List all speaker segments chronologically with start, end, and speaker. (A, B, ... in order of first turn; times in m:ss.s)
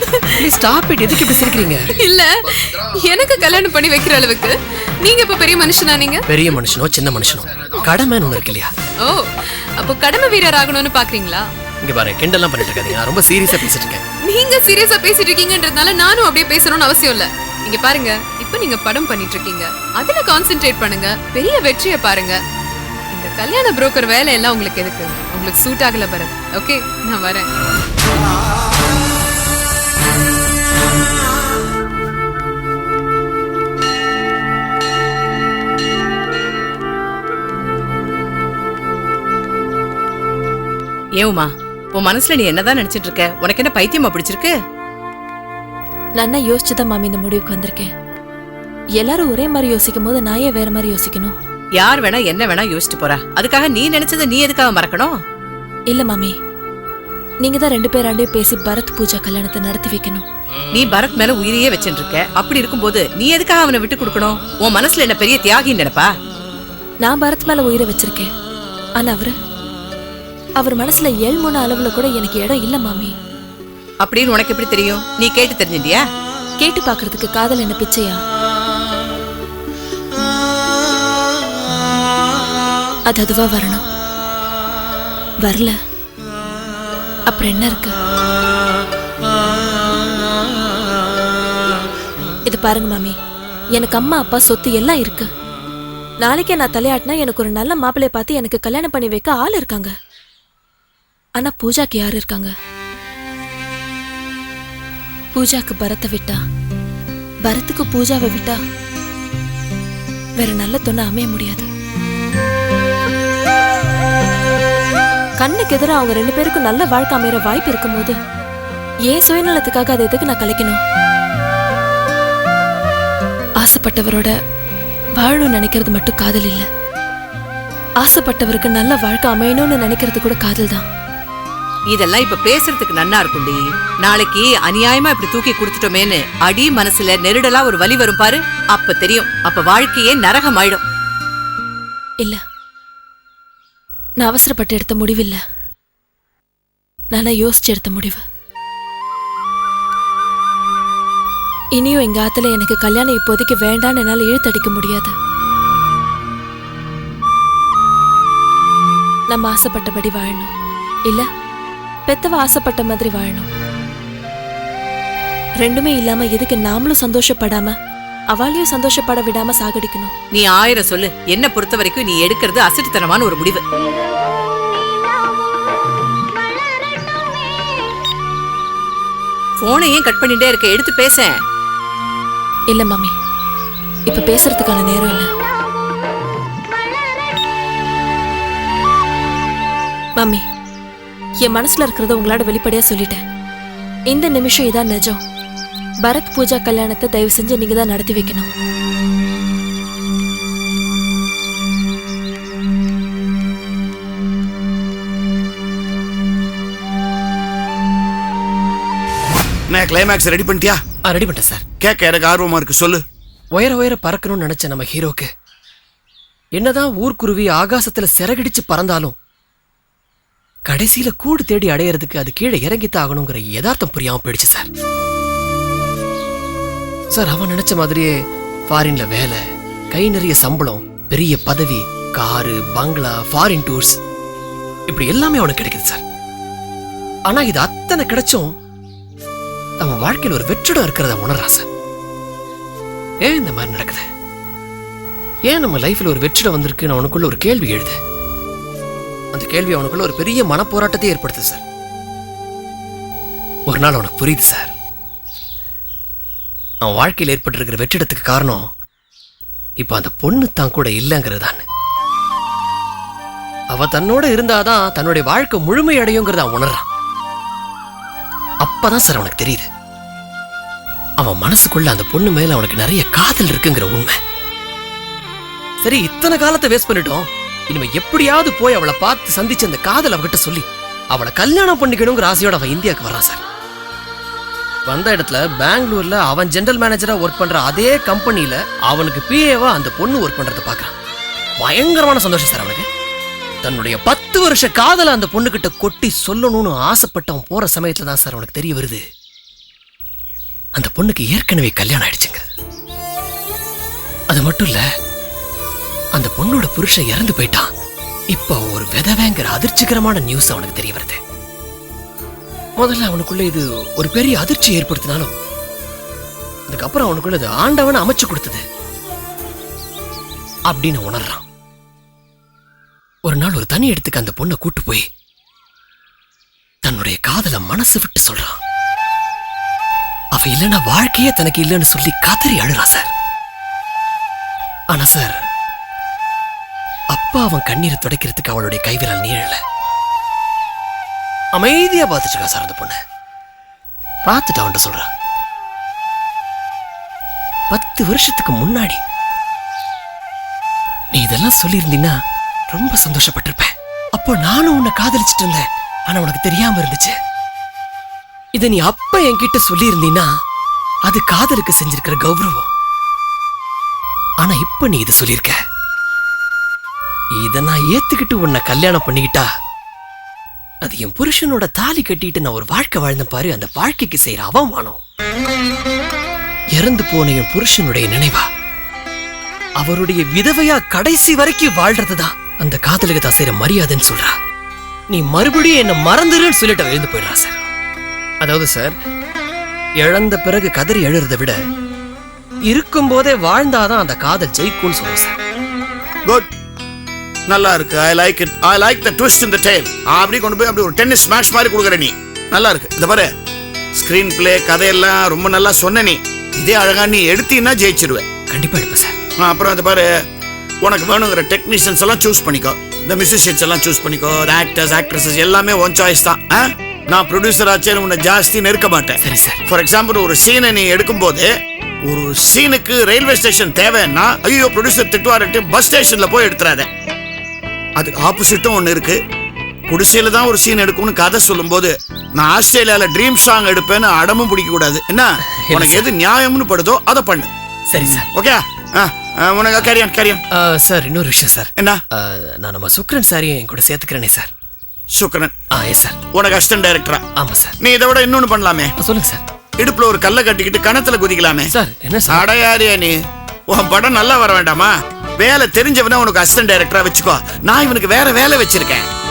0:00.4-0:01.9 A
0:02.0-0:06.2 B
0:06.3-0:08.7 A
0:09.8-0:11.4 B
0:11.8-0:14.0 A
0:14.3-0:22.4 B
0:23.1-0:27.5 B
0:41.2-0:44.5 C
0:46.2-0:47.9 D
0:49.0-0:51.3 D
0:51.8-0:55.1 C
0:55.9-0:56.3 D
0:57.4-1:00.2 D
1:00.7-1:06.1 C
1:07.0-1:08.3 D
1:09.0-1:09.3 D
1:10.6-1:13.1 D
1:14.0-1:16.0 C
1:16.6-1:18.2 D
1:23.1-1:23.8 D
1:25.4-1:25.8 D
1:27.3-1:27.9 D
1:32.4-1:33.2 D
1:33.7-1:35.3 D
1:36.2-1:39.9 D
1:41.4-1:42.5 D
1:45.3-1:46.4 D
1:47.4-1:48.6 D
1:50.4-1:51.7 D
1:55.4-1:58.2 D
1:59.1-2:00.8 D
2:03.6-2:04.3 D
2:05.2-2:06.7 D
2:08.0-2:10.8 D
2:11.9-2:20.8 C
2:24.2-2:25.4 D
2:27.1-2:28.2 D
2:31.8-2:35.1 D
2:39.3-2:40.5 D
2:42.1-2:43.5 D
2:45.6-2:47.7 D
2:48.3-2:50.1 D
2:50.3-2:53.6 C
2:59.6-3:01.3 C
3:02.7-3:03.1 D
3:04.1-3:05.3 D
3:11.4-3:13.2 D
3:14.1-3:15.2 D
3:16.0-3:18.5 D
3:29.7-3:30.8 E
3:31.0-3:31.6 A
3:31.8-3:33.0 E
3:33.5-3:35.3 A
3:36.5-3:39.1 A
3:40.6-3:44.7 A
3:47.1-3:48.1 A
3:48.7-3:49.4 A
3:49.9-3:54.0 A
3:54.9-3:56.0 A
3:57.3-3:58.5 A
3:59.8-4:01.7 A
4:03.2-4:04.1 A
4:05.5-4:08.0 A
4:09.3-4:11.6 A
4:13.7-4:14.7 A
4:16.8-4:18.7 A
4:19.8-4:21.6 A
4:23.7-4:26.8 A
4:28.6-4:29.7 A
4:31.2-4:34.2 A
4:35.8-4:43.4 A
4:44.9-4:50.9 A
4:51.6-4:52.9 A
4:53.6-4:59.0 A
5:00.7-5:02.5 A
5:04.3-5:04.8 A
5:06.2-5:07.7 A
5:08.3-5:11.2 A
5:12.8-5:15.4 A
5:16.7-5:18.6 A
5:20.7-5:21.4 A
5:23.2-5:25.0 A
5:26.8-5:28.6 A
5:30.3-5:33.1 A
5:34.9-5:35.4 A
5:37.1-5:39.6 A
5:41.6-5:43.0 A
5:44.2-5:45.1 A
5:47.7-5:49.0 A
5:51.1-5:52.1 A
5:52.7-5:57.2 A
5:58.6-6:00.3 A
6:01.1-6:02.7 A
6:04.4-6:05.6 A
6:07.4-6:09.5 A
6:10.8-6:15.0 A
6:16.8-6:18.5 A
6:19.8-6:24.4 A
6:25.1-6:27.7 A
6:28.4-6:29.0 A
6:30.0-6:31.6 A
6:32.7-6:35.4 A
6:36.2-6:36.5 E
6:37.5-6:43.3 E
6:44.0-6:48.2 E
6:48.5-6:49.2 A
6:49.4-6:50.1 E
6:50.8-7:01.5 E
6:59.2-6:59.6 A
7:02.0-7:06.9 E
7:08.0-7:09.2 E
7:09.9-7:20.4 E
7:15.6-7:16.1 A
7:17.9-7:18.3 A
7:20.5-7:24.5 A
7:25.1-7:25.5 E
7:25.7-7:26.2 A
7:26.3-7:27.2 E
7:27.4-7:27.8 A
7:27.8-7:28.9 E
7:29.0-7:29.4 A
7:29.8-7:31.7 E
7:31.7-7:32.4 A
7:32.3-7:39.1 E